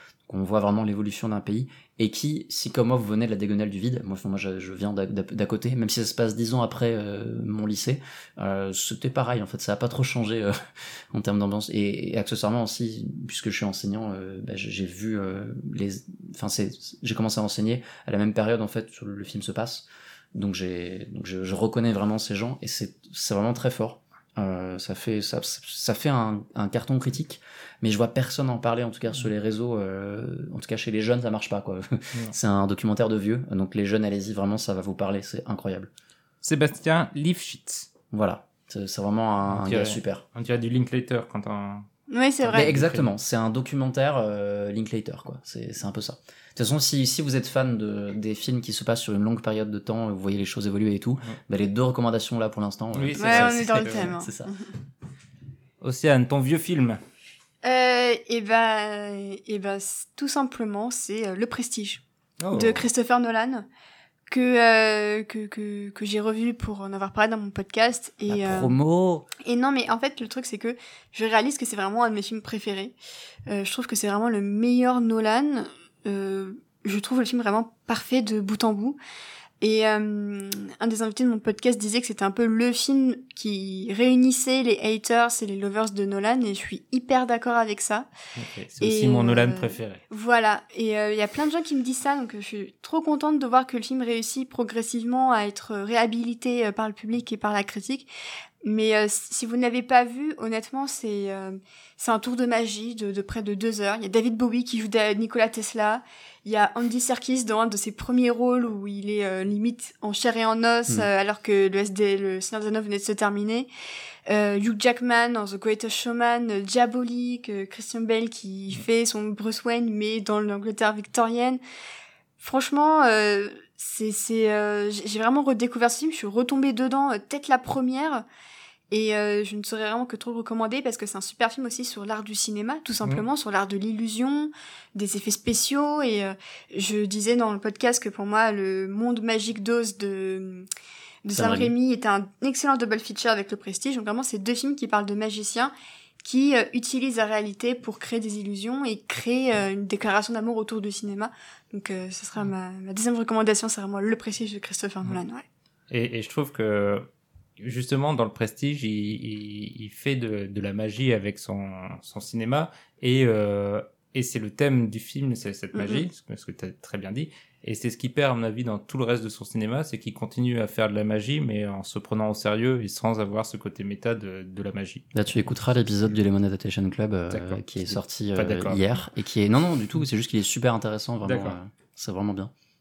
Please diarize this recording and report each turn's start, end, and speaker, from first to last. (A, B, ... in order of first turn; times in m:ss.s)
0:00.3-0:10.5 A
0:11.1-0:35.9 A
0:36.4-0:37.9 B
0:38.1-0:40.2 A
0:39.5-0:41.9 B
0:42.1-0:42.7 C
0:42.4-0:43.1 B
0:42.6-0:54.5 A
0:53.0-0:54.1 B
0:53.2-0:54.7 C
0:55.8-0:57.0 B
0:57.6-1:03.6 C
1:02.4-1:02.8 B
1:04.3-1:08.7 C
1:08.3-1:09.3 A
1:09.4-1:12.9 C
1:13.5-1:19.0 C
1:19.6-1:28.1 C
1:28.4-1:30.0 B
1:28.8-1:38.1 C
1:38.6-1:53.7 C
1:54.3-2:01.6 C
2:02.4-2:08.2 C
2:08.9-2:20.7 C
2:21.2-2:25.7 C
2:21.3-2:21.7 A
2:26.2-2:35.4 C
2:35.9-2:37.0 B
2:37.6-2:55.2 B
2:45.7-2:46.0 C
2:55.1-3:02.5 A
2:57.3-2:58.8 B
3:01.2-3:01.6 B